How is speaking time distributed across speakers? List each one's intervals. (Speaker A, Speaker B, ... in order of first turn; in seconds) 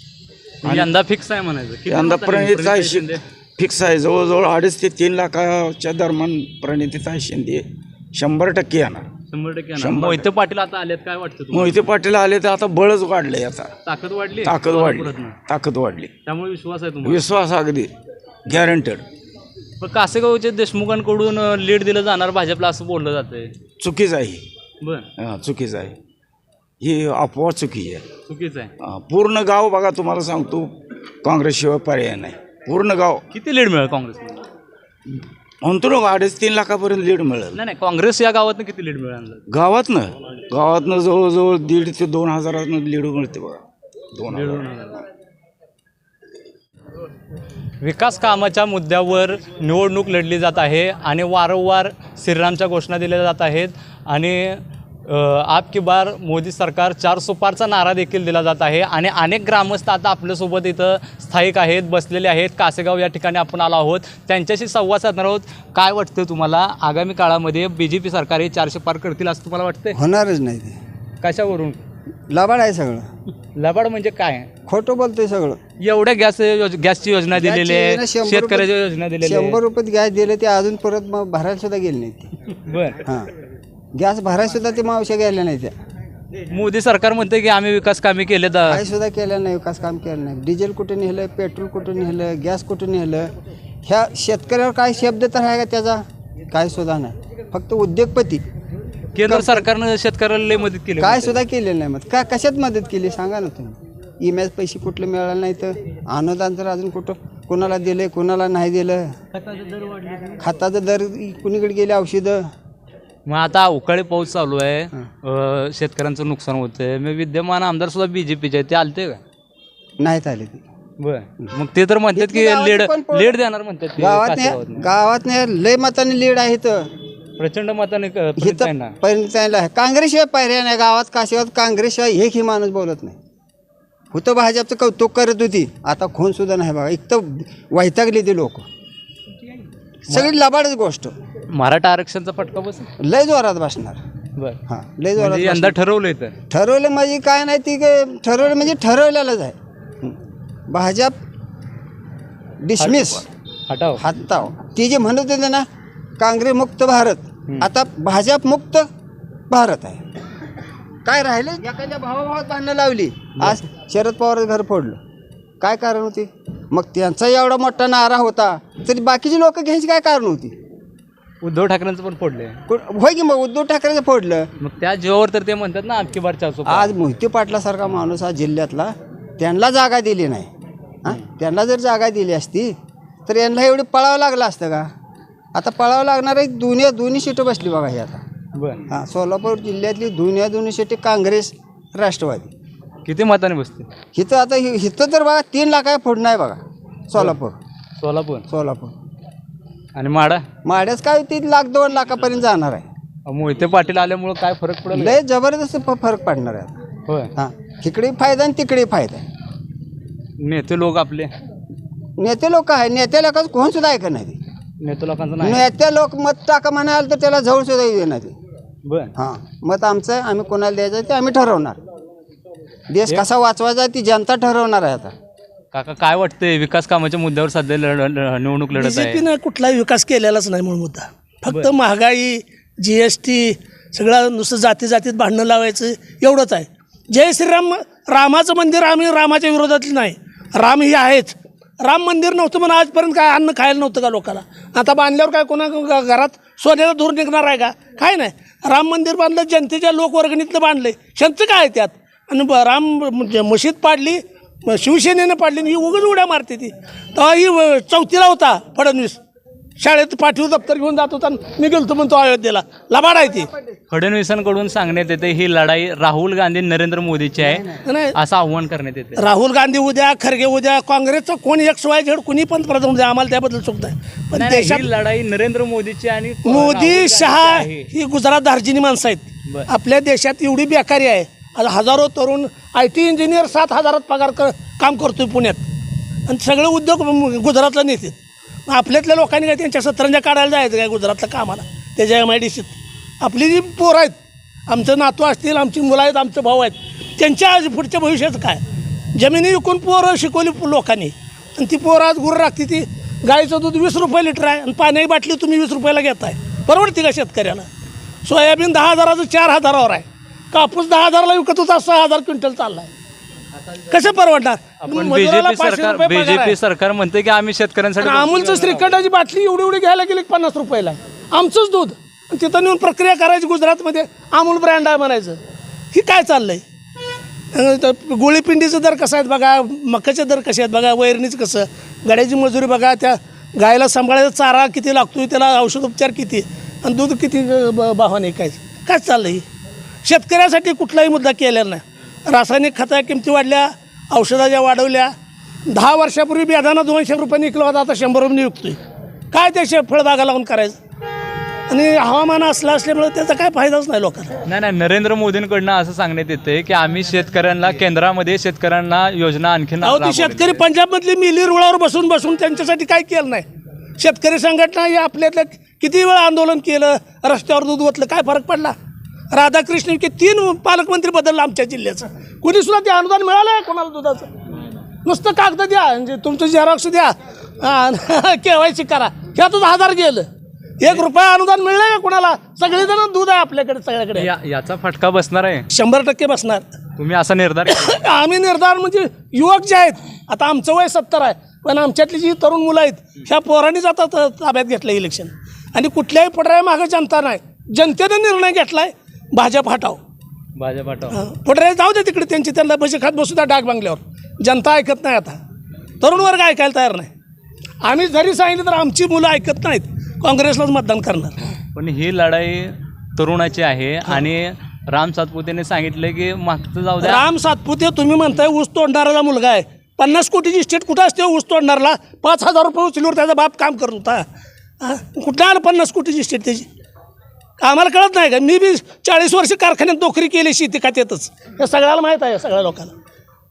Speaker A: 0.6-3.2, 9.3-11.9, 13.8-15.3, 16.2-17.2, 19.8-23.5, 24.8-25.1, 28.3-28.7, 33.3-34.4, 37.5-39.4, 44.3-45.0, 47.8-70.0, 71.2-71.8, 73.5-74.5, 75.8-79.6, 82.6-83.0, 86.5-88.8, 99.1-101.4, 109.3-110.4, 113.2-119.2, 121.0-124.8, 127.4-128.9, 141.5-142.9, 145.2-146.3, 152.8-154.0, 171.4-172.6, 174.6-176.9, 188.6-188.8, 193.0-193.9, 198.0-198.4, 199.9-200.4, 203.3-205.2, 207.1-207.3, 210.4-211.3, 214.8-215.7, 218.8-219.1, 225.7-229.2, 263.9-269.2, 274.3-277.9, 314.8-319.0, 354.4-360.6, 384.1-385.7, 386.9-388.0, 400.6-401.2, 411.7-417.2
Speaker B: 0.6-0.9, 1.9-9.1, 9.8-10.3, 11.5-13.7, 14.4-16.1, 17.0-17.9, 18.4-19.0, 23.8-24.4, 25.2-25.9, 26.8-28.0, 28.8-33.2, 35.1-37.6, 39.5-43.6, 44.1-44.7
Speaker C: 69.9-70.8, 72.3-73.0, 74.7-75.6, 77.3-78.7, 79.2-82.3, 83.9-85.7, 88.7-93.3, 93.8-98.4, 99.2-99.7, 101.0-109.1, 110.4-112.5, 120.0-120.6, 122.1-123.4, 124.0-126.9, 128.4-133.2, 134.1-138.7, 140.1-141.1, 143.0-144.0, 144.7-145.7, 146.5-150.2, 150.7-151.2, 152.6-153.2, 154.0-155.7, 156.2-158.8, 159.5-160.0, 161.0-165.0, 165.6-170.5, 172.7-174.5, 176.7-180.5, 181.0-182.7, 183.3-184.9, 185.5-188.2, 188.9-192.5, 194.1-197.6, 198.5-198.9, 200.6-202.8, 204.9-206.7, 207.3-209.2, 212.2-214.4, 215.4-218.3, 219.2-221.8, 222.9-225.1, 267.4-267.8
Speaker D: 228.7-259.2, 259.8-263.5, 267.9-268.1, 269.2-274.8, 276.4-285.6, 286.3-294.1, 294.7-298.6, 299.1-307.7, 308.2-312.9, 313.9-316.5, 318.0-325.4, 325.9-326.6, 327.5-339.4, 340.0-345.1, 345.7-348.8, 349.3-350.8, 351.7-354.3, 359.8-363.4, 364.0-368.7, 369.3-374.3, 375.0-380.3, 380.8-384.2, 385.7-386.7, 387.7-400.0, 401.1-405.4, 406.0-407.1, 407.8-411.4, 417.0-424.2, 424.8-426.7, 427.6-432.9